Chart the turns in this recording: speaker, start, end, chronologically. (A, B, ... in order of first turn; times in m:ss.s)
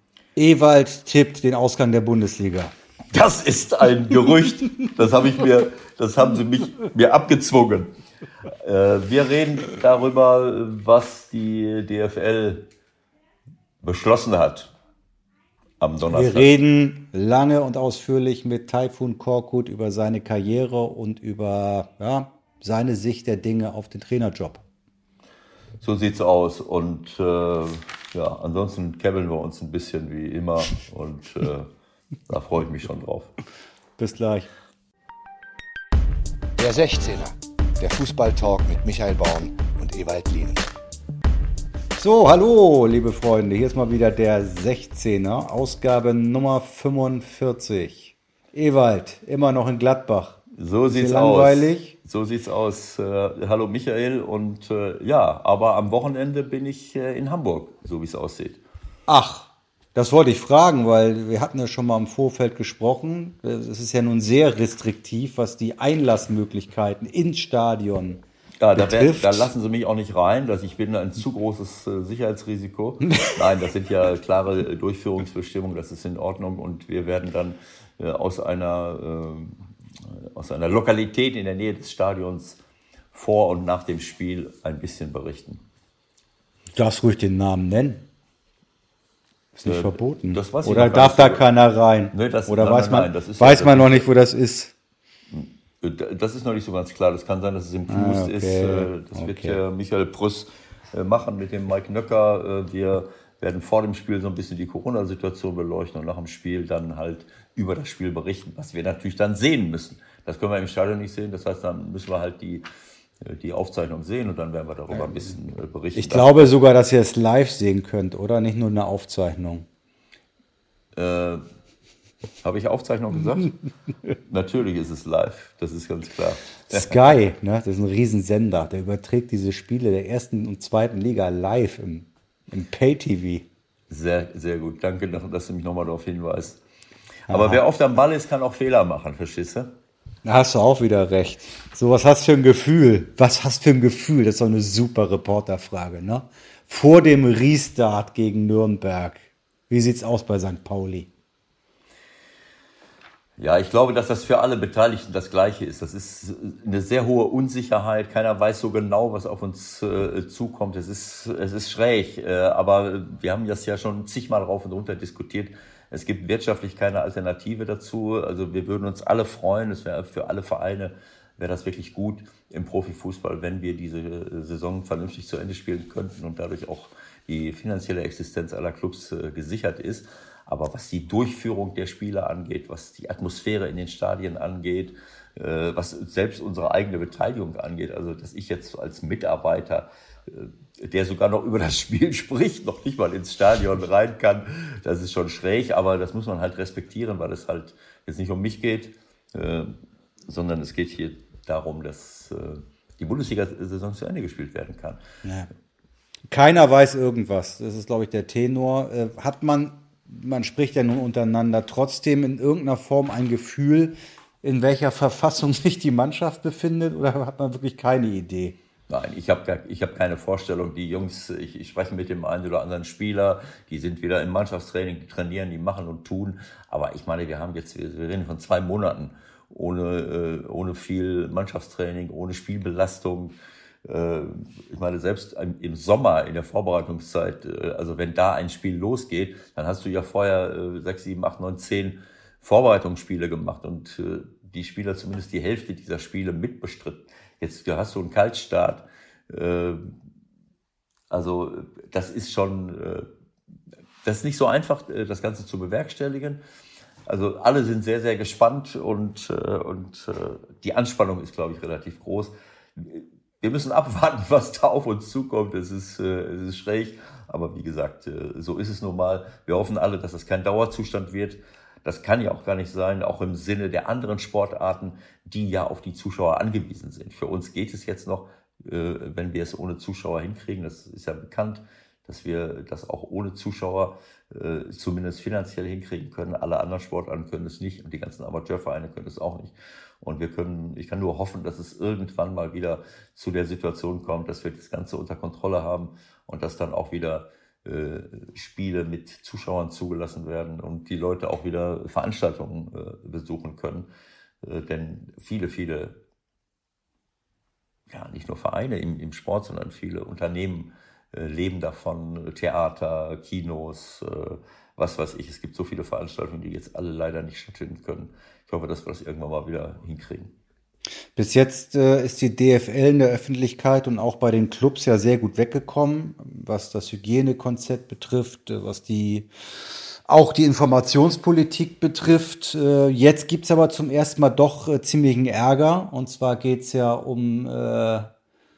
0:00.4-0:02.7 A
0:03.1-0:07.9 B
0:08.6-0:12.6 B
0:13.8-0:14.7 B
0:15.8-0:16.5 B
0:16.1-0:24.6 A
0:25.8-0:31.7 B
0:32.3-0:33.3 B
0:34.0-0:34.5 A
0:36.6-0:40.7 C
0:42.0-0:51.9 A
0:50.6-0:58.6 B
0:59.1-1:08.2 A
1:08.6-1:22.6 B
1:08.8-1:09.5 A
1:23.1-1:25.6 B
1:26.8-1:28.0 A
1:29.6-1:34.7 A
1:29.6-1:31.5 B
1:32.1-1:34.1 B
1:35.3-1:52.7 B
1:37.9-1:39.6 A
1:53.2-1:56.4 B
1:56.0-1:59.7 A
2:01.0-2:01.4 B
2:02.4-2:03.5 B
2:04.3-2:07.1 B
2:06.7-2:13.5 A
2:13.9-2:16.6 B
2:17.3-2:19.8 B
2:17.3-2:17.6 A
2:20.2-2:31.1 A
2:33.4-3:19.7 B
3:20.3-3:25.0 B
3:25.2-3:25.5 A
3:26.3-3:38.6 A
3:38.9-4:10.0 B
4:11.1-4:13.1 B
4:14.0-4:16.4 B
4:17.1-5:03.9 B
5:04.4-5:06.0 B
5:07.9-5:20.3 B
5:21.2-5:29.3 A
5:30.1-5:38.1 A